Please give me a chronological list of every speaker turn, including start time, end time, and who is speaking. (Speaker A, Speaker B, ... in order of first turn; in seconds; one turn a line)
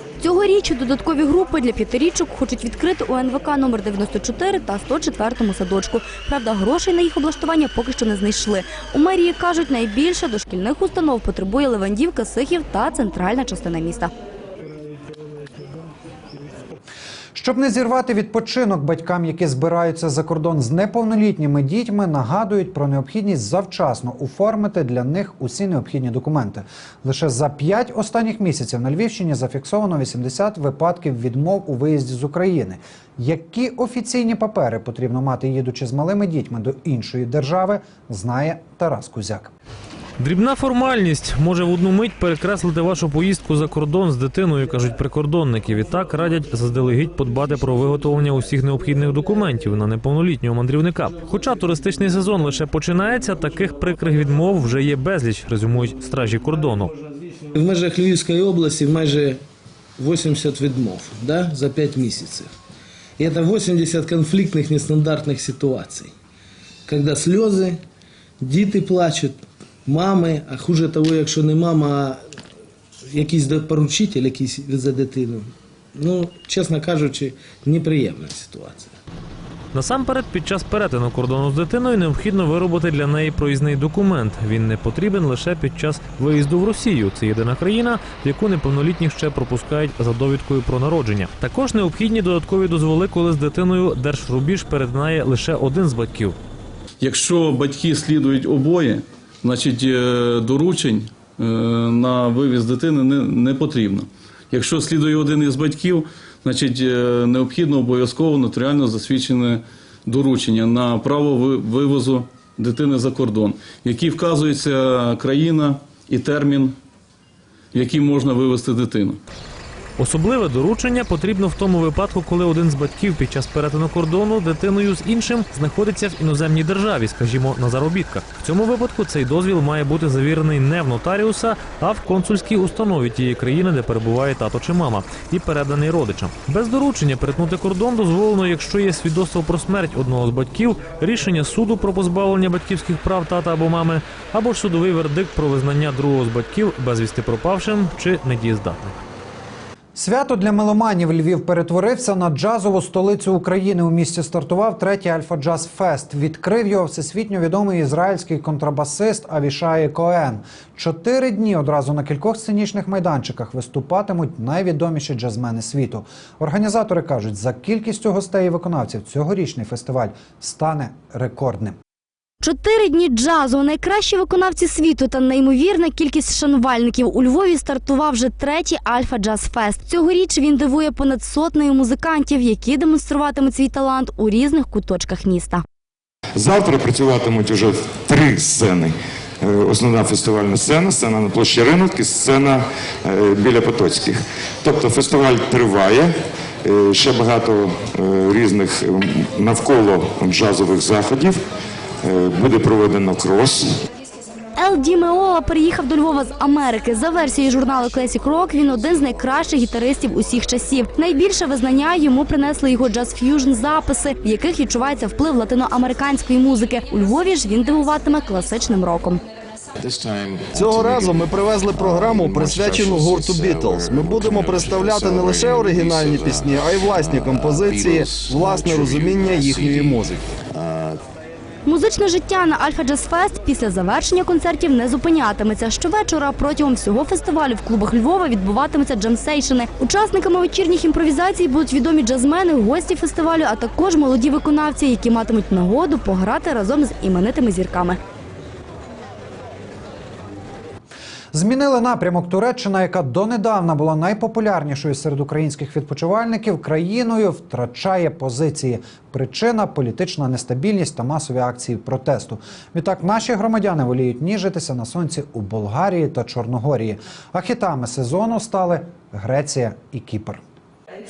Speaker A: 0.2-14.1
Speaker B: 17.3-39.5
Speaker C: 40.2-56.9
Speaker D: 57.5-59.4
Speaker D: 60.0-62.5
Speaker D: 63.2-66.1
Speaker D: 66.9-67.8
Speaker D: 68.4-72.2
Speaker D: 73.1-78.9
Speaker C: 79.7-96.4
Speaker E: 97.0-116.7
Speaker E: 117.7-119.2
Speaker C: 120.0-149.0
Speaker B: 149.9-171.8
Speaker A: 172.4-185.6
Speaker F: 186.4-188.9
Speaker F: 189.5-192.6
Speaker F: 193.2-194.2
Speaker F: 194.9-196.1
Speaker F: 196.8-198.7
Speaker F: 199.4-201.3
Speaker F: 202.2-203.6
Speaker A: 204.6-219.2
Speaker G: 219.8-231.0
Speaker A: 231.7-248.0
Speaker B: 251.3-270.4